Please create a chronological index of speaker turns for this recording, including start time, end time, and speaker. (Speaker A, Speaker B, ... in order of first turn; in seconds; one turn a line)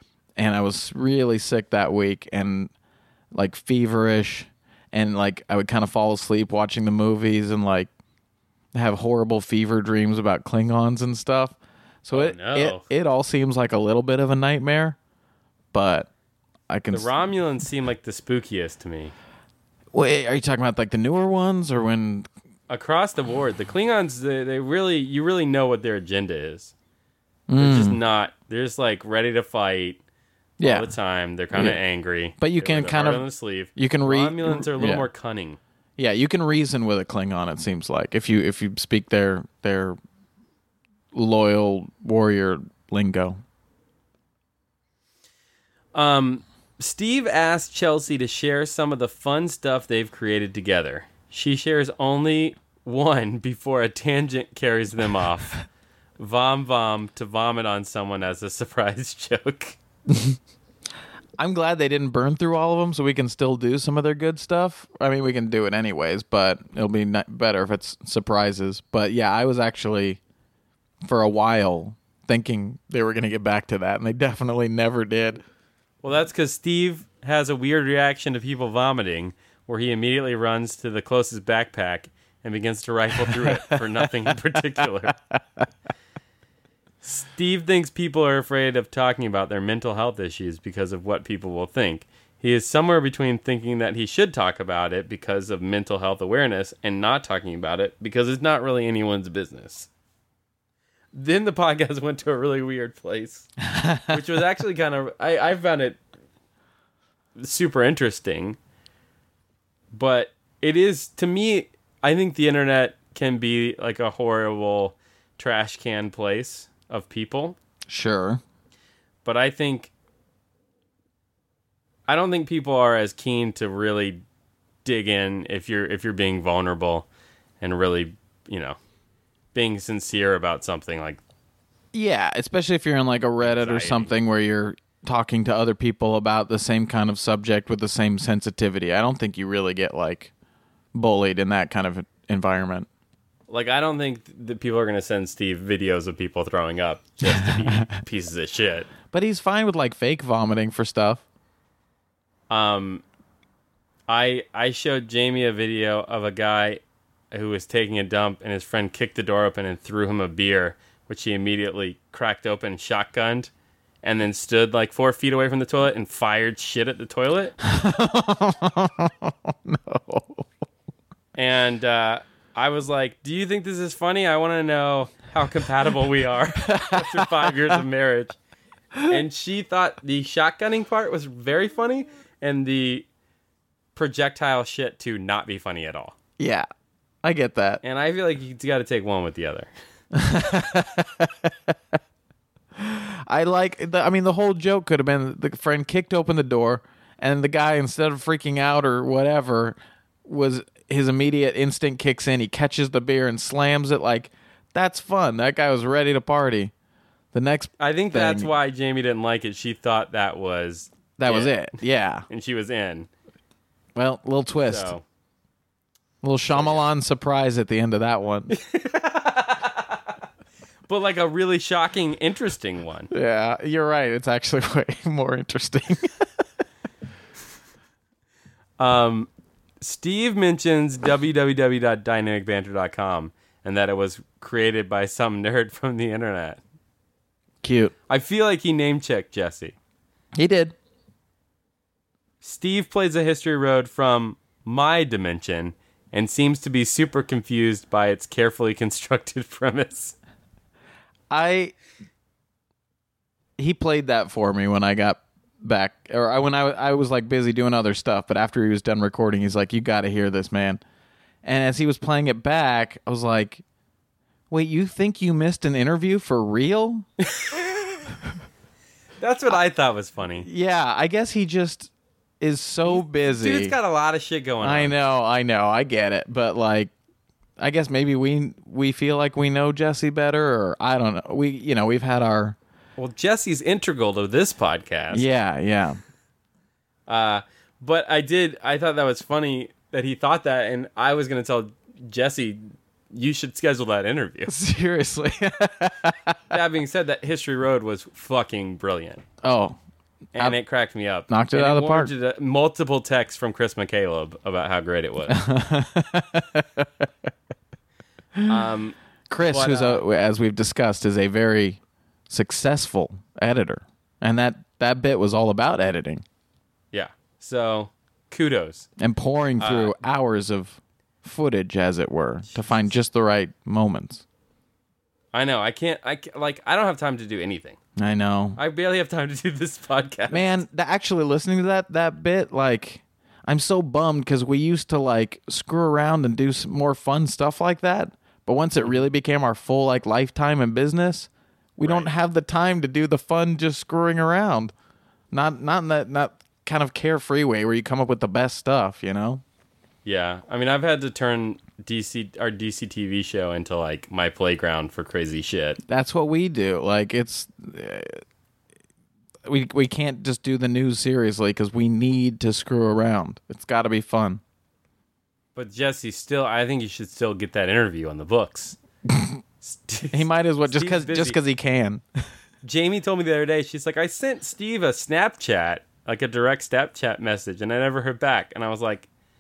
Speaker A: 0.4-2.7
Speaker A: 3.3-7.9
Speaker A: 8.7-15.0
Speaker B: 12.1-12.9
Speaker A: 15.7-16.1
Speaker A: 16.7-17.1
Speaker B: 16.9-19.1
Speaker A: 19.9-22.3
Speaker B: 22.7-26.7
Speaker A: 27.5-28.0
Speaker B: 27.6-30.0
Speaker A: 30.6-30.9
Speaker B: 30.6-35.6
Speaker A: 31.5-31.8
Speaker A: 32.4-35.1
Speaker A: 36.0-40.0
Speaker A: 41.1-43.4
Speaker B: 45.9-55.6
Speaker B: 56.2-59.8
Speaker A: 60.1-60.4
Speaker A: 61.4-70.2
Speaker A: 71.0-75.4
Speaker B: 76.0-85.2
Speaker A: 83.3-84.1
Speaker A: 85.3-85.6
Speaker B: 87.0-99.9
Speaker B: 101.1-103.5
Speaker A: 103.7-104.1
Speaker B: 104.1-106.0
Speaker B: 107.4-108.6
Speaker B: 109.9-117.6
Speaker A: 117.9-118.4
Speaker B: 119.2-119.9
Speaker B: 122.1-124.2
Speaker B: 124.8-127.1
Speaker B: 127.6-128.8
Speaker B: 129.5-131.2
Speaker A: 131.9-140.3
Speaker B: 133.4-134.1
Speaker A: 140.9-142.9
Speaker B: 143.5-148.9
Speaker A: 147.3-147.8
Speaker A: 149.1-151.2
Speaker B: 152.5-153.0
Speaker B: 154.1-156.8
Speaker B: 157.3-163.5
Speaker B: 164.0-167.6
Speaker A: 167.6-170.5
Speaker B: 171.3-178.4
Speaker A: 176.7-177.5
Speaker B: 179.1-183.1
Speaker B: 183.9-186.2
Speaker A: 186.4-186.7
Speaker A: 187.2-187.8
Speaker B: 187.8-189.7
Speaker A: 190.1-191.8
Speaker A: 192.8-206.7
Speaker A: 207.3-208.5
Speaker B: 207.8-211.6
Speaker A: 211.2-212.3
Speaker B: 212.3-213.1
Speaker A: 213.9-214.9
Speaker B: 214.7-215.0
Speaker A: 216.2-218.5
Speaker B: 216.5-216.9
Speaker B: 218.5-220.0
Speaker B: 220.9-223.1
Speaker A: 223.1-226.2
Speaker B: 228.8-229.3
Speaker B: 229.8-236.6
Speaker A: 237.6-237.9
Speaker B: 238.1-239.8
Speaker A: 240.4-240.8
Speaker B: 242.4-250.2
Speaker A: 251.3-251.7
Speaker A: 253.6-260.8
Speaker A: 261.4-263.6
Speaker A: 264.5-267.1
Speaker B: 267.3-267.6
Speaker B: 269.2-270.5
Speaker A: 270.4-273.8
Speaker B: 272.9-275.0
Speaker A: 274.6-276.9
Speaker A: 277.6-282.6
Speaker B: 283.0-285.3
Speaker A: 285.1-286.0
Speaker B: 287.1-294.5
Speaker A: 294.5-296.4
Speaker B: 296.5-299.2
Speaker A: 299.4-299.8
Speaker B: 300.4-305.4
Speaker A: 301.3-302.1
Speaker A: 305.3-307.1
Speaker B: 308.5-310.0
Speaker A: 309.3-316.2
Speaker B: 316.9-318.9
Speaker A: 319.0-324.2
Speaker B: 319.6-320.0
Speaker B: 325.3-327.8
Speaker A: 328.0-328.6
Speaker B: 328.6-330.6
Speaker A: 330.3-344.7
Speaker B: 341.8-342.1
Speaker A: 345.3-349.4
Speaker B: 350.1-355.8
Speaker A: 355.9-358.2
Speaker A: 359.5-364.4
Speaker B: 365.6-368.8
Speaker B: 369.6-371.4
Speaker A: 370.1-372.1
Speaker B: 372.6-379.1